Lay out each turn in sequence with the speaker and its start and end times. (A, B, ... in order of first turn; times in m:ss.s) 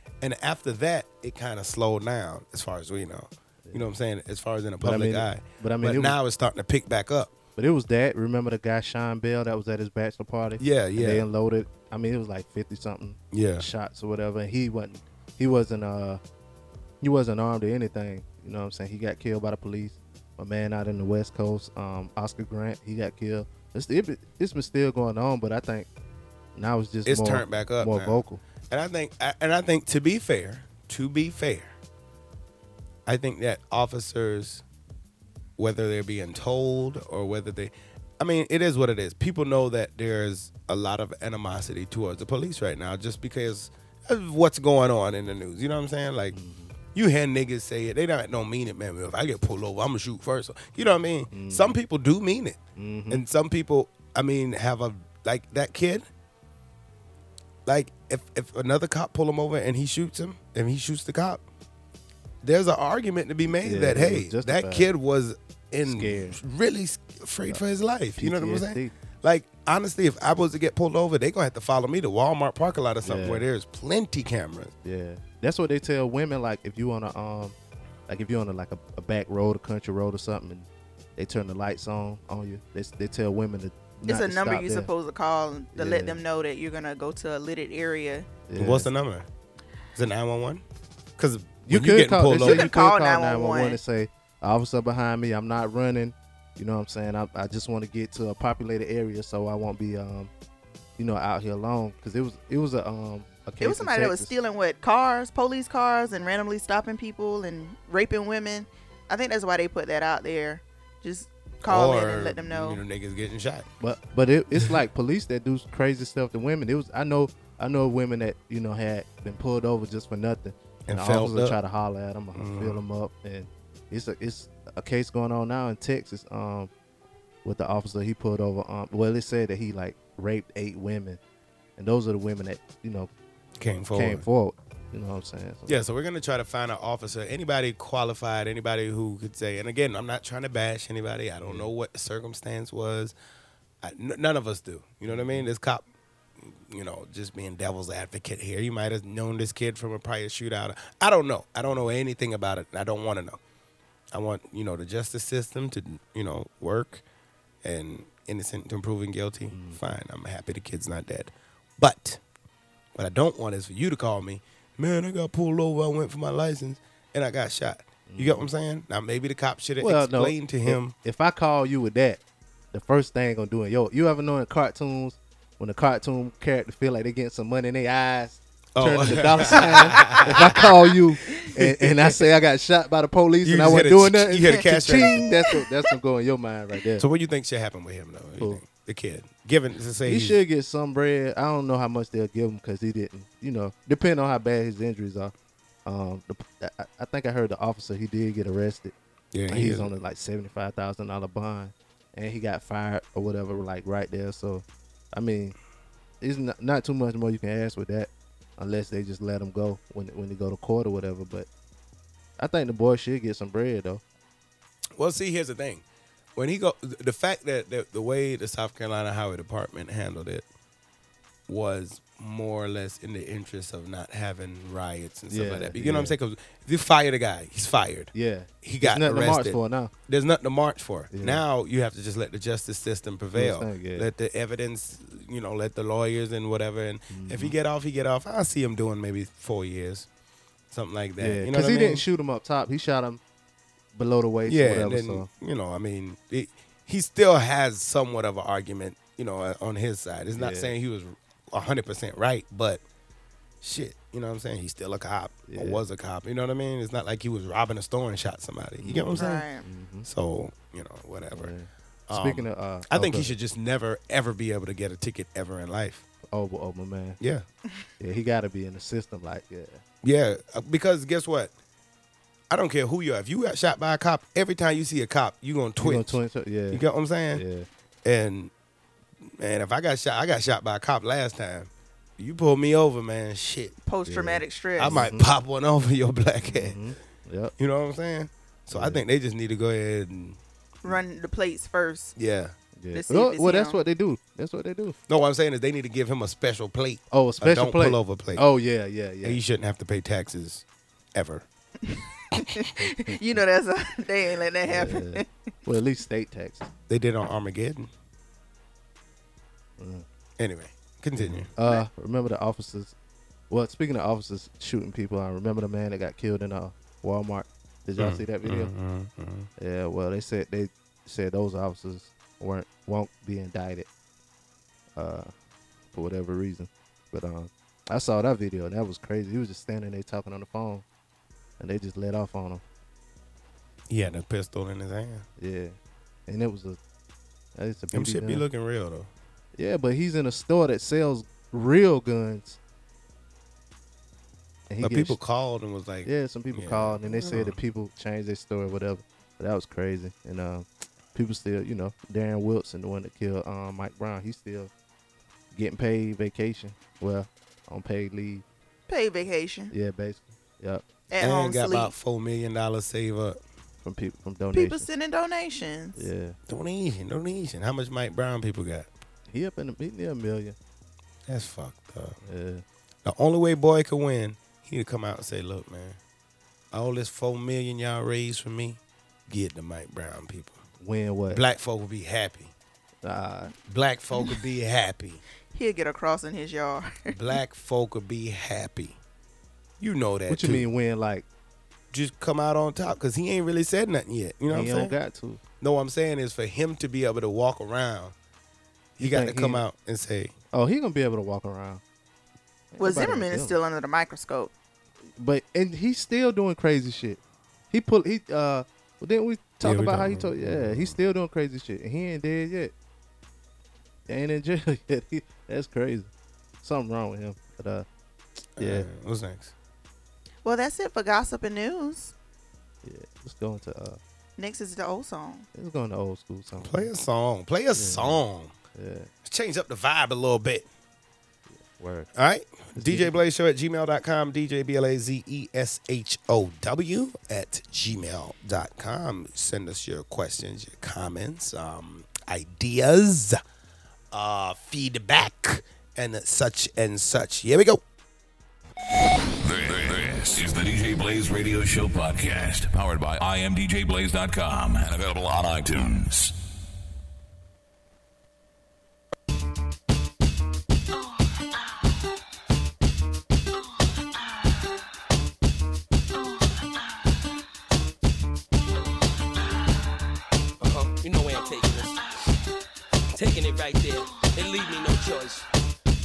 0:00.2-0:07.3 A
0:04.8-0:06.2 B
0:07.6-0:16.2 B
0:10.6-0:11.2 A
0:13.3-0:13.7 A
0:17.0-0:25.9 B
0:26.5-0:28.4 B
0:27.0-0:31.7 A
0:33.0-0:34.6 A
0:35.6-0:46.4 A
0:46.3-0:46.7 B
0:46.9-0:52.6 A
0:51.3-0:51.8 B
0:52.8-0:53.2 B
0:53.1-0:56.0 A
0:57.6-1:01.4 A
1:02.4-1:14.7 A
1:03.6-1:04.9 B
1:05.8-1:06.4 B
1:08.2-1:08.9 B
1:13.0-1:13.4 B
1:14.8-1:17.5 B
1:18.1-1:24.9 B
1:24.0-1:28.3 C
1:25.7-1:26.2 B
1:28.5-1:28.9 B
1:28.5-1:29.3 A
1:29.9-1:30.6 A
1:31.2-1:32.7 A
1:31.6-1:40.3 B
1:32.4-1:33.8 C
1:41.0-1:44.3 B
1:43.6-1:52.8 C
1:51.6-1:53.7 A
1:53.8-2:06.7 B
2:00.9-2:01.6 A
2:02.3-2:02.8 A
2:07.4-2:11.2 B
2:11.8-2:13.1 B
2:13.6-2:14.2 A
2:13.9-2:15.8 B
2:15.7-2:23.1 A
2:21.4-2:21.7 B
2:23.8-2:25.8 A
2:25.1-2:25.5 B
2:26.4-2:33.4 A
2:34.1-2:37.0 A
2:37.6-2:42.2 A
2:39.5-2:39.8 B
2:43.0-2:50.9 A
2:48.1-2:48.5 B
2:49.8-2:52.2 B
2:52.7-3:07.0 B
2:58.7-3:00.6 A
3:01.3-3:02.2 A
3:03.4-3:05.2 A
3:07.0-3:10.4 A
3:10.0-3:15.3 B
3:15.8-3:18.9 B
3:19.3-3:19.9 A
3:19.5-3:25.5 B
3:26.2-3:31.5 B
3:32.4-3:34.0 B
3:35.0-3:35.8 A
3:36.4-3:40.4 A
3:41.5-4:00.1 A
3:45.3-3:46.2 B
3:48.1-3:49.9 B
3:51.1-3:51.4 B
3:53.3-3:54.1 B
3:57.1-3:57.5 B
4:00.7-4:02.0 A
4:01.2-4:03.2 B
4:03.9-4:05.3 B
4:04.4-4:12.8 A
4:10.4-4:10.7 B
4:13.6-4:19.4 A
4:15.5-4:15.8 B
4:18.8-4:20.1 B
4:19.2-4:19.6 C
4:20.0-4:21.5 A
4:21.3-4:23.3 B
4:22.1-4:26.0 A
4:26.3-4:27.2 B
4:27.2-4:27.4 A
4:28.0-4:29.8 B
4:30.0-4:31.5 A
4:32.5-4:36.2 A
4:35.8-4:37.7 B
4:36.7-4:37.4 A
4:38.0-4:38.5 A
4:39.4-4:43.7 A
4:43.8-4:45.0 C
4:44.1-4:45.3 B
4:44.8-4:46.8 A
4:46.4-4:47.5 B
4:47.6-4:50.4 A
4:48.7-4:49.0 B
4:50.8-4:52.1 C
4:52.2-4:52.5 A
4:52.8-4:55.0 B
4:52.9-4:53.8 C
4:55.1-4:58.4 A
4:57.1-4:59.4 B
4:59.2-5:01.4 A
5:01.8-5:05.3 C
5:02.8-5:03.2 B
5:04.6-5:06.7 B
5:06.9-5:07.9 A
5:09.8-5:10.0 B
5:10.4-5:11.5 A
5:11.2-5:12.9 B
5:13.5-5:18.7 B
5:18.0-5:19.5 A
5:19.6-5:23.9 B
5:24.9-5:25.3 B
5:25.9-5:30.8 B
5:31.6-5:32.6 B
5:33.9-5:35.2 A
5:35.4-5:36.8 B
5:37.6-5:38.4 B
5:37.9-5:39.1 A
5:39.6-5:42.6 B
5:44.7-5:45.2 B
5:44.8-5:47.6 A
5:46.0-5:54.7 B
5:55.5-5:58.4 B
5:58.9-5:59.7 C
5:59.7-6:00.8 B
6:01.1-6:01.9 C
6:01.2-6:03.4 A
6:03.8-6:04.9 B
6:04.5-6:06.1 C
6:06.0-6:06.4 B
6:06.5-6:08.9 A
6:09.3-6:10.6 B
6:11.3-6:12.2 A
6:12.2-6:12.6 B
6:13.0-6:16.0 A
6:16.7-6:20.6 A
6:20.8-6:21.4 B
6:21.3-6:22.5 A
6:23.0-6:23.5 B
6:23.7-6:25.2 A
6:25.5-6:27.1 C
6:27.1-6:29.0 A
6:29.8-6:30.7 A
6:30.3-6:31.2 B
6:31.9-6:34.9 A
6:34.5-6:35.4 B
6:35.6-6:38.1 A
6:39.0-6:40.3 A
6:39.0-6:39.6 B
6:40.5-6:41.8 B
6:42.7-6:43.5 B
6:42.8-6:44.5 C
6:45.2-6:47.2 B
6:47.7-6:52.7 B
6:49.6-6:51.0 A
6:54.1-6:56.1 B
6:56.6-6:57.8 B
6:58.6-6:59.5 A
6:58.6-6:58.9 B
7:00.4-7:02.1 C
7:02.8-7:04.0 B
7:04.4-7:05.4 C
7:05.5-7:06.9 B
7:06.6-7:08.5 A
7:07.7-7:08.2 B
7:08.7-7:09.1 B
7:09.2-7:10.7 A
7:11.5-7:12.1 B
7:12.1-7:23.4 A
7:12.8-7:13.2 B
7:24.1-7:27.8 A
7:29.4-7:36.3 D
7:50.6-7:52.0 E
7:53.1-7:55.4 E